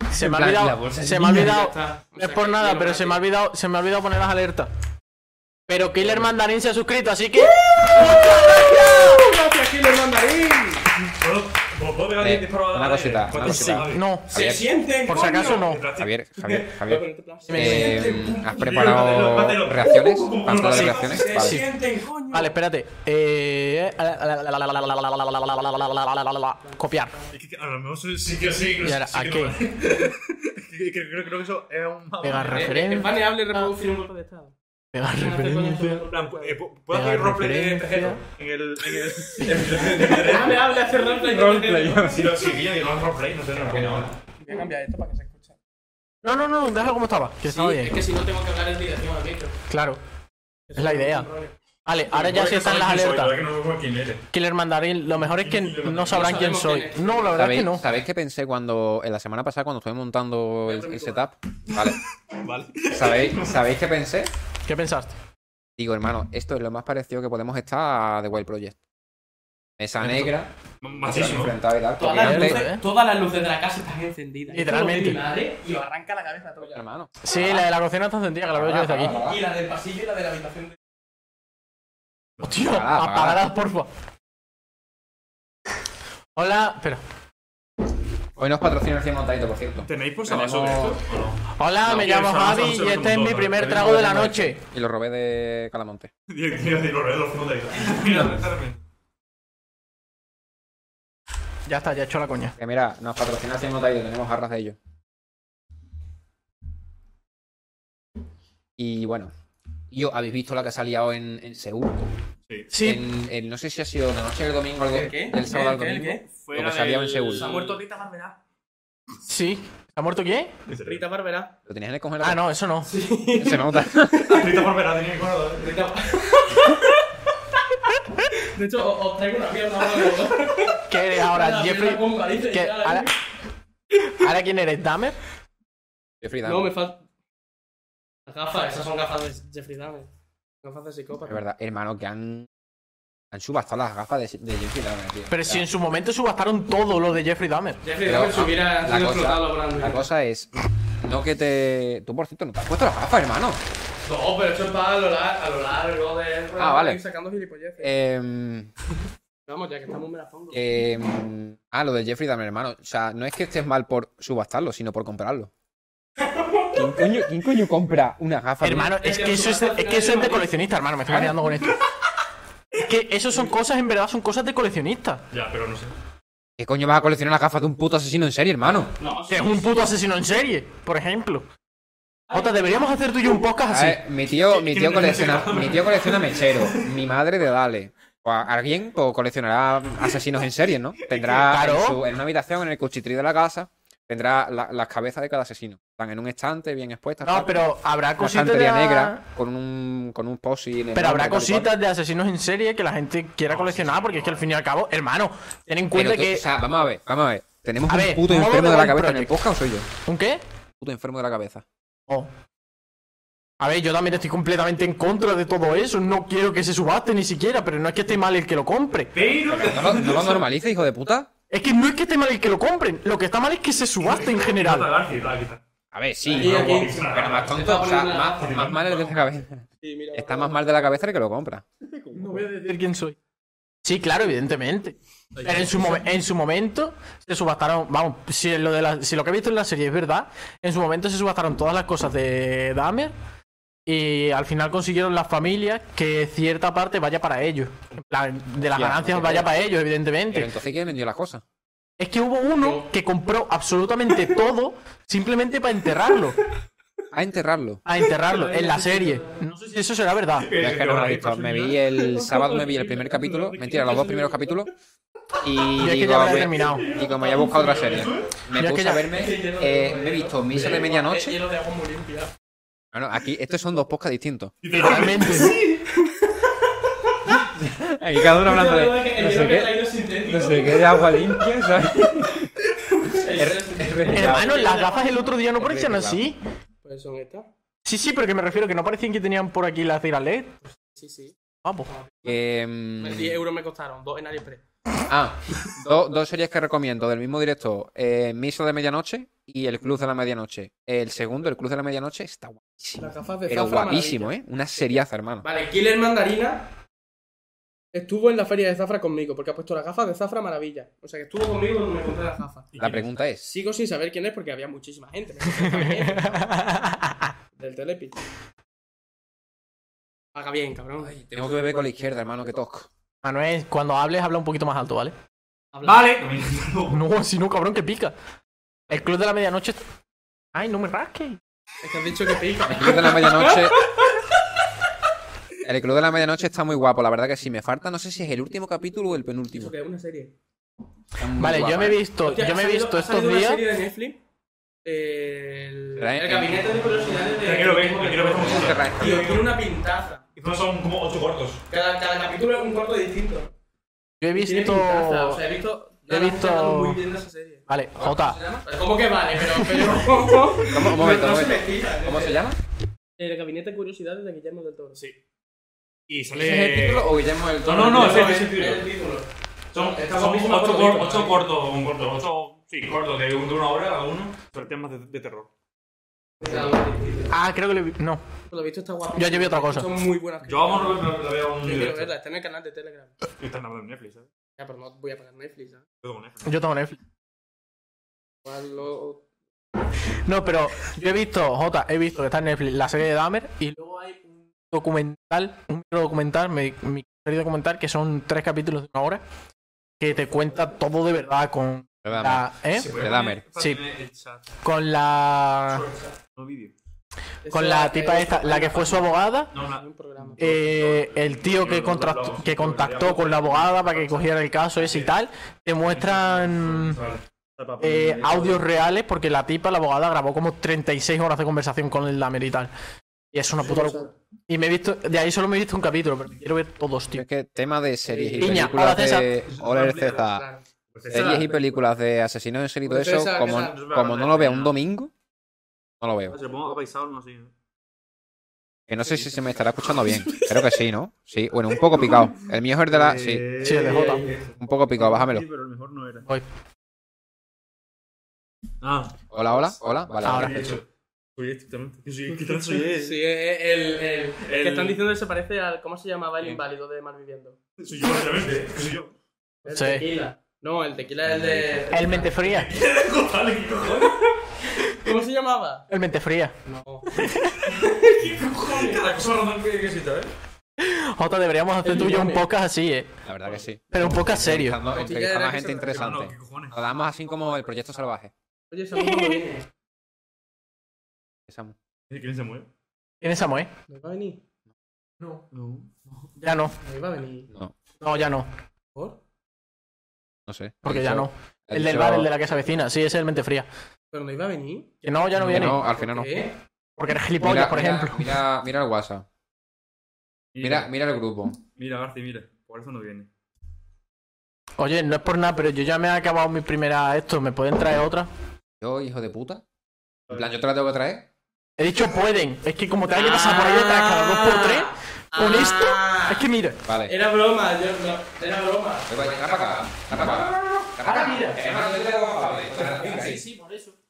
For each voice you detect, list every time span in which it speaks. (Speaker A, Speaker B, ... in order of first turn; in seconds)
Speaker A: 0.1-4.7, 5.7-9.3, 13.4-14.3, 15.1-15.9, 17.5-18.2, 21.2-21.7, 22.3-27.1, 28.8-29.7, 32.2-33.7, 34.9-36.0, 36.9-38.2, 46.2-48.0, 49.7-50.0, 50.8-51.3, 51.9-53.4, 54.3-57.9, 64.7-65.1, 70.0-70.3, 72.1-72.8, 74.5-75.2, 77.2-79.2, 82.4-83.9, 86.4-87.0, 90.3-91.0, 91.5-94.6, 101.7-102.5, 112.7-113.0, 119.2-120.5, 122.2-122.9, 130.9-133.1, 134.1-135.2, 145.3-147.8, 168.6-171.8, 172.8-175.2, 179.3-181.5, 182.3-184.0, 191.4-192.0, 197.2-199.2, 200.9-206.5, 207.9-209.4, 210.1-210.4, 213.6-219.1, 221.5-224.9, 232.1-233.2, 233.8-243.1, 243.9-250.5, 252.0-256.4, 257.9-260.5, 265.8-266.9, 268.5-269.2, 274.8-275.6, 284.1-286.4, 287.9-290.6, 291.6-291.9, 315.6-317.3, 323.2-325.1, 326.9-328.1, 328.9-329.8, 330.5-331.4, 341.4-343.6, 354.2-355.4, 356.1-357.0, 357.7-358.4, 359.6-359.9, 377.3-378.2, 379.1-379.9, 386.4-387.0, 390.2-399.2, 400.0-402.9, 403.6-403.8, 404.6-405.9, 407.5-409.5, 410.4-417.0, 417.8-422.7, 423.3-427.2, 428.4-429.3, 443.6-444.2, 450.2-450.8, 459.7-460.1, 461.9-462.7, 465.9-466.6, 467.1-467.6, 470.8-473.1, 473.9-474.8, 478.9-479.4, 483.2-483.7, 486.4-486.8, 488.0-488.5, 490.8-493.7, 495.0-495.8, 497.0-498.3, 504.8-508.3, 511.8-516.8, 520.2-524.0
Speaker B: 0.1-1.6, 12.2-14.7, 16.0-21.6, 41.2-42.3, 43.7-44.1, 57.3-62.0, 62.9-64.3, 65.8-68.8, 69.8-72.6, 76.6-77.7, 78.5-79.4, 82.6-83.4, 88.4-89.9, 93.7-96.1, 102.6-104.8, 108.8-109.3, 109.9-112.1, 112.8-117.5, 121.7-122.5, 123.3-124.3, 136.2-136.7, 141.3-142.5, 143.3-145.6, 148.0-153.6, 156.6-157.0, 157.8-158.7, 160.5-165.5, 166.7-169.0, 176.6-178.9, 183.7-197.6, 198.2-201.7, 205.9-209.9, 210.8-211.7, 219.4-221.3, 225.9-231.7, 248.7-249.5, 250.3-251.4, 257.1-257.8, 260.6-264.7, 265.4-271.4, 272.9-275.1, 277.3-282.5, 283.4-284.8, 285.6-286.2, 292.2-293.3, 295.1-305.4, 312.8-313.5, 321.0-322.9, 332.7-333.9, 335.6-339.7, 341.2-342.0, 346.0-346.8, 348.4-349.3, 360.6-362.6, 366.3-368.3, 402.0-403.4, 427.1-430.5, 431.1-435.1, 436.0-436.4, 438.9-443.5, 444.6-445.4, 449.3-450.8, 461.3-461.8, 473.3-478.3, 481.5-481.8, 490.5-492.3, 495.4-496.5, 497.4-499.3, 500.6-501.6, 508.8-509.6, 510.3-511.3, 516.9-517.1, 519.1-523.4
Speaker C: 1.3-3.2, 7.8-10.9, 14.3-15.7, 16.4-18.2, 20.7-22.5, 26.6-27.3, 32.5-34.5, 35.1-36.6, 39.7-42.3, 44.3-45.6, 47.5-49.5, 50.7-51.5, 56.1-57.4, 60.7-61.3, 72.0-76.8, 79.0-80.8, 114.9-116.3, 117.3-118.4, 120.7-121.5, 122.8-124.5, 125.6-127.0, 128.3-133.1, 136.4-137.0, 138.3-140.1, 140.6-141.4, 147.8-150.0, 154.1-157.9, 159.5-160.6, 166.2-166.8, 169.0-170.5, 179.0-179.9, 182.3-182.9, 226.3-228.5, 229.8-231.0, 252.6-252.9, 258.1-259.4, 262.3-264.6, 266.6-268.1, 269.1-272.3, 275.9-276.5, 278.4-281.2, 282.9-285.3, 286.8-287.5, 290.6-292.4, 293.0-294.6, 303.0-306.7, 307.9-312.7, 313.4-316.5, 317.6-318.2, 320.4-321.1, 325.7-326.0, 331.8-334.2, 339.5-340.3, 342.2-344.2, 344.9-350.2, 351.7-353.5, 354.4-362.4, 363.2-365.0, 367.7-369.3, 369.9-371.4, 376.4-377.4, 378.5-381.1, 381.6-383.1, 384.6-385.9, 388.4-389.3, 407.4-410.6, 423.7-424.1, 428.1-428.5, 430.3-431.4, 432.9-433.8, 443.7-444.4, 452.7-457.6, 459.6-462.3, 463.9-465.9, 466.6-467.1, 467.6-469.0, 471.8-472.5, 474.9-476.1, 478.7-479.7, 483.9-484.4, 486.8-487.5, 494.1-495.0, 495.8-496.5, 513.1-516.5, 517.1-519.1
Speaker D: 11.2-14.1, 15.5-16.1, 17.7-21.3, 27.3-32.8, 36.1-40.6, 42.0-44.1, 52.1-54.2, 55.2-56.5, 62.3-63.6, 70.8-71.6, 82.4-82.7, 89.8-94.1, 96.3-98.8, 116.4-117.8, 120.7-121.0, 124.2-125.7, 171.1-171.3, 175.3-175.9, 184.3-186.8, 203.5-204.4, 219.1-220.5, 224.0-225.6, 226.2-227.6, 228.4-229.4, 235.4-235.8, 260.4-264.1, 267.7-268.2, 274.6-275.8, 312.7-313.2, 325.8-327.0, 347.4-349.5, 350.4-351.6, 366.1-367.1, 367.6-368.9, 369.7-375.5, 380.4-382.1, 383.4-384.3, 386.0-386.5, 402.7-404.4, 406.3-406.7, 409.5-415.1, 415.8-418.6, 429.5-430.3, 430.9-431.6, 433.4-434.8, 436.3-437.5, 442.9-446.3, 448.8-449.1, 450.2-450.8, 451.4-453.2, 454.4-455.0, 457.8-459.1, 462.3-464.2, 468.2-470.3, 475.9-476.8, 482.1-482.7, 485.5-485.9, 495.4-495.7, 500.5-500.9, 501.6-503.3